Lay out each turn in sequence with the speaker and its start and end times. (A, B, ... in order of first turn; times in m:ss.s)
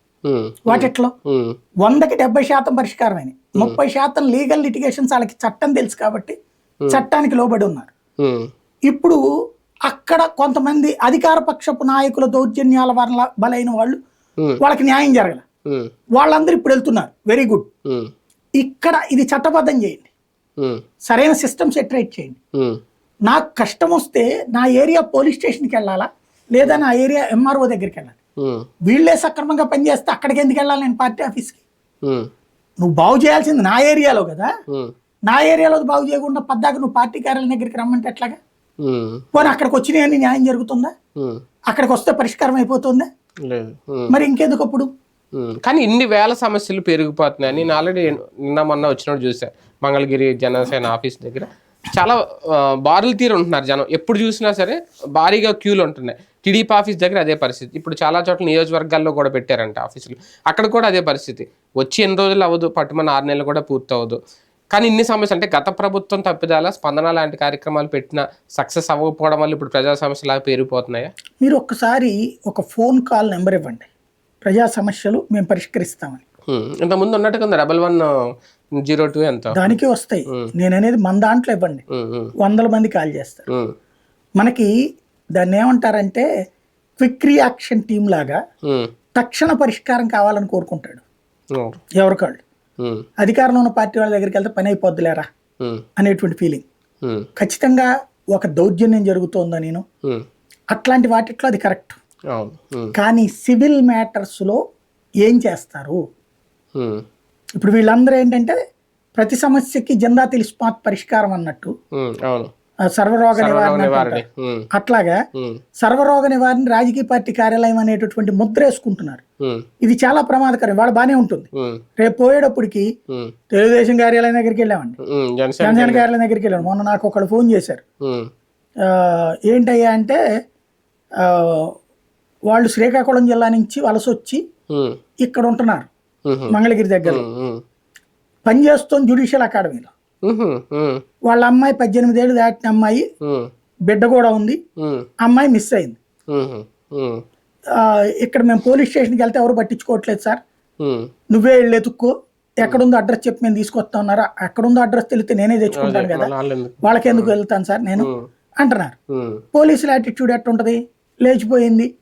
0:00.2-0:01.6 A
0:00.7-0:01.1 B
0:01.8-0:06.4 B
0:06.9-0:07.9 B
0:08.2-0:08.5 A
0:08.9-0:09.2 B
0:09.9-0:14.0 B
0:14.6-0:15.4 B
0:16.2-0:17.7 B
0:18.6-0:20.1 B
0:21.1-0:22.4 B
0:23.3-0:28.2 B
0:28.9-0:31.6 B
0:32.0-0:32.3 A
0:32.8-0:34.5 B
0:35.3-0:38.4 B
0:38.8-0:39.6 A
0:39.4-0:40.9 B
0:41.7-0:43.1 B
0:43.5-0:44.1 A
0:44.1-0:44.9 B
0:45.4-1:04.2 A
1:04.7-1:11.1 A
1:11.4-1:13.9 B
1:14.4-1:16.2 B
1:16.5-1:18.1 A
1:18.8-1:19.7 A
1:19.5-1:21.8 B
1:21.9-1:22.3 A
1:22.4-1:23.5 B
1:24.4-1:24.7 B
1:25.3-1:26.3 B
1:27.0-1:28.4 B
1:29.2-1:31.0 B
1:32.0-1:32.4 B
1:32.8-1:33.0 A
1:33.2-1:35.3 B
1:36.0-1:36.6 B
1:37.4-1:39.8 B
1:40.7-1:42.0 B
1:42.3-1:42.9 A
1:43.0-1:44.6 B
1:45.2-1:46.0 B
1:46.8-1:47.0 A
1:47.6-1:48.6 B
1:49.2-1:51.7 B
1:52.0-1:52.5 A
1:52.9-1:54.2 B
1:53.4-1:54.7 A
1:54.7-1:55.2 B
1:55.8-1:59.2 B
1:59.8-2:01.5 B
2:02.0-2:02.9 B
2:03.5-2:05.0 B
2:05.1-2:06.1 A
2:05.6-2:07.8 B
2:08.0-2:08.3 A
2:08.8-2:10.2 B
2:11.2-2:11.7 B
2:12.5-2:14.4 B
2:14.7-2:15.0 A
2:15.2-2:15.9 B
2:16.3-2:17.6 A
2:16.5-2:17.2 B
2:18.4-2:19.9 B
2:20.2-2:21.0 A
2:21.3-2:23.0 B
2:23.2-2:23.5 A
2:23.9-2:24.6 B
2:24.8-2:25.1 A
2:25.2-2:26.0 B
2:26.3-2:27.2 A
2:27.8-2:30.4 B
2:30.8-2:31.1 A
2:31.3-2:36.3 B
2:35.7-2:37.3 A
2:36.8-2:38.9 B
2:38.0-2:38.3 A
2:39.1-2:39.4 A
2:39.5-2:41.9 B